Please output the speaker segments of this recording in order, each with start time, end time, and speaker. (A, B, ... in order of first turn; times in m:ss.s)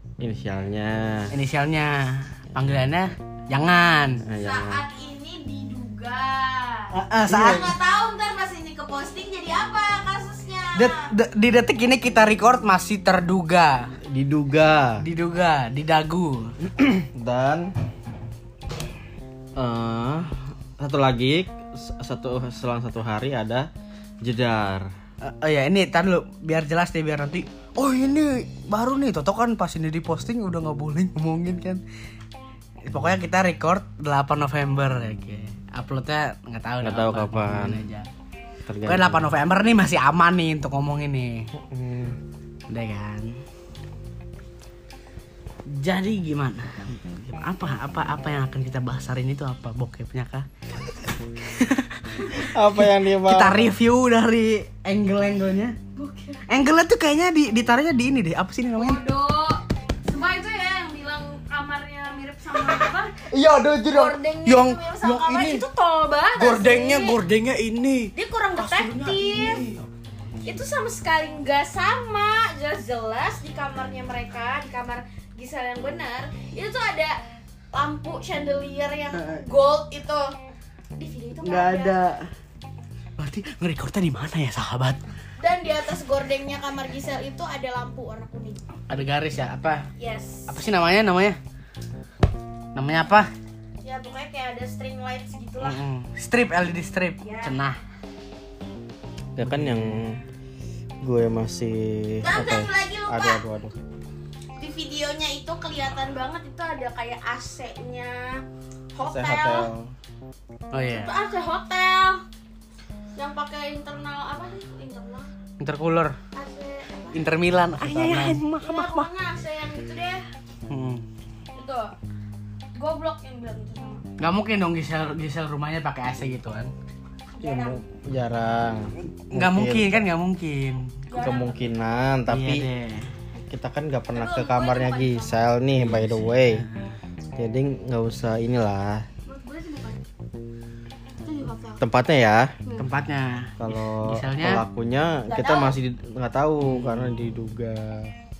0:00.2-0:01.4 A
0:01.3-0:04.2 B
0:04.2-0:04.8 A
0:04.4-0:11.1 C
0:06.9-0:07.7 B
0:07.2-0:07.7 A
0:10.8-0:13.9 B
0:14.0-0:15.0 A
0:15.0-0:16.5 B
0:16.6-0:17.7 A
0:19.6-0:23.7 A
0:24.2-0:24.9 A
0:25.2-0:31.8 B
0:32.9-0:38.1 B
0:36.8-0:37.8 A
0:38.7-0:39.4 A
0:38.9-0:41.5 B
0:41.6-0:42.2 A
0:42.7-0:43.4 B
0:45.7-0:50.5 B
0:51.4-0:55.8 B
0:52.3-0:53.7 A
0:56.0-0:56.4 C
0:56.5-0:59.0 B
0:58.8-1:03.3 C
1:03.3-1:05.6 B
1:03.8-1:07.2 C
1:06.4-1:09.9 B
1:08.1-1:09.6 C
1:10.4-1:17.2 C
1:17.7-1:20.4 C
1:19.1-1:19.4 B
1:21.0-1:22.0 C
1:21.4-1:22.3 B
1:23.2-1:25.0 B
1:25.4-1:28.7 C
1:28.9-1:29.9 B
1:30.0-1:30.6 C
1:30.5-1:31.4 B
1:32.8-1:33.3 B
1:33.8-1:35.8 C
1:35.6-1:37.8 B
1:37.2-1:37.6 C
1:39.4-1:40.2 A
1:39.4-1:40.0 B
1:41.0-1:43.8 A
1:42.2-1:43.4 C
1:44.6-1:49.7 C
1:49.1-1:49.9 A
1:50.7-1:51.1 B
1:50.8-1:52.2 C
1:53.2-1:55.3 C
1:55.6-1:56.2 B
1:56.4-1:57.3 C
1:57.1-1:59.1 B
1:57.7-1:58.4 A
1:58.6-2:00.2 C
2:00.7-2:01.0 B
2:01.6-2:02.0 C
2:02.8-2:04.0 C
2:04.2-2:06.7 B
2:07.4-2:07.8 C
2:07.4-2:10.0 A
2:09.2-2:11.0 B
2:11.1-2:11.6 C
2:11.2-2:12.7 A
2:12.3-2:13.1 B
2:13.4-2:16.6 A
2:14.2-2:15.5 C
2:15.8-2:16.9 B
2:17.4-2:19.1 A
2:19.3-2:20.0 C
2:21.2-2:21.9 C
2:21.8-2:22.6 A
2:22.8-2:24.6 B
2:23.6-2:28.1 A
2:25.2-2:25.8 C
2:26.6-2:27.2 B